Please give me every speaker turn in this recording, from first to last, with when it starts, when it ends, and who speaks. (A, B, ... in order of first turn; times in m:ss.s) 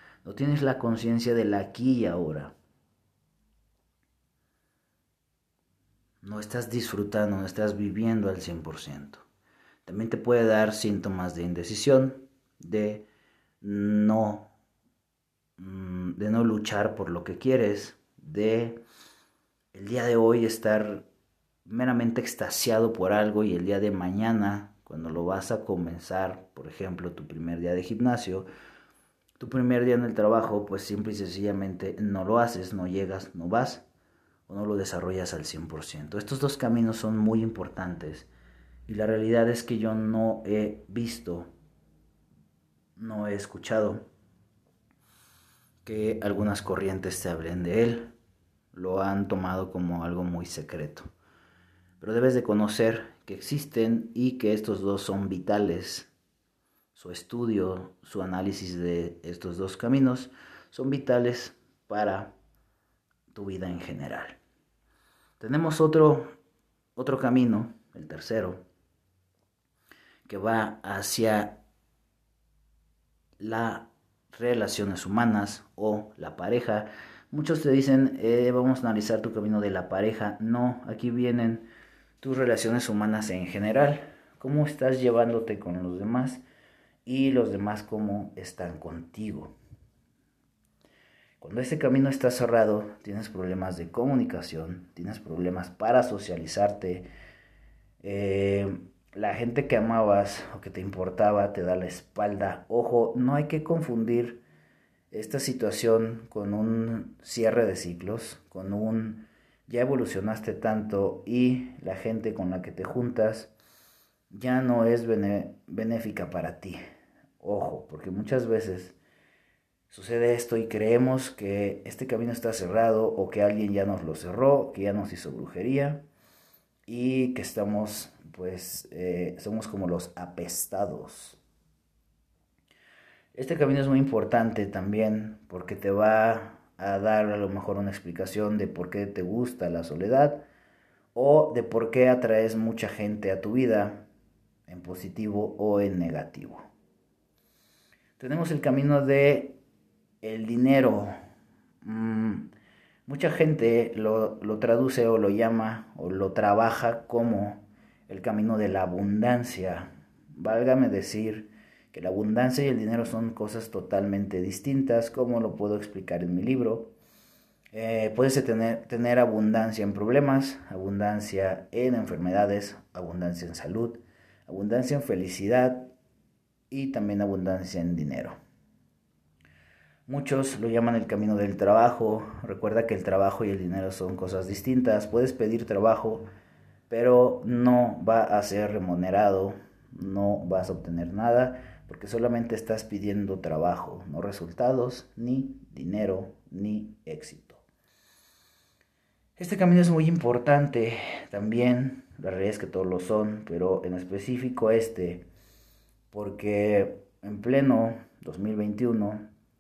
0:00.2-0:02.5 A
0:06.2-0:09.2 A
0:09.8-0:13.0 A
0:13.6-0:14.5 A
0:15.6-0:18.8 A
0:19.7-0:21.1 A
0:21.6-0:28.5 A
0:29.4-0:33.8 A
0:34.5-0:38.3 A
0:38.9-0:41.5 A
0:43.0-0:44.0 A
0:45.8-0:48.1 A
0:48.7-0:51.1 A
0:52.0-0:56.1 A
0:56.9-1:02.3 A
1:03.3-1:04.4 A
1:05.4-1:06.3 A
1:07.0-1:08.6 A
1:10.3-1:11.6 A
1:13.4-1:21.7 A
1:22.2-1:26.4 A
1:27.0-1:29.5 A
1:31.4-1:37.1 A
1:38.0-1:44.4 A
1:45.1-1:53.5 A
1:54.3-1:56.8 A
1:57.4-1:59.0 A
1:59.9-2:06.0 A
2:06.9-2:11.4 A
2:13.3-2:20.4 A
2:21.1-2:24.1 A
2:24.7-2:26.6 A
2:28.2-2:29.6 A
2:30.2-2:31.1 A
2:31.8-2:32.5 A
2:33.1-2:46.9 A
2:47.7-2:55.9 A
2:56.7-2:58.4 A
3:00.1-3:06.3 A
3:06.9-3:17.6 A
3:19.4-3:25.2 A
3:26.1-3:29.3 A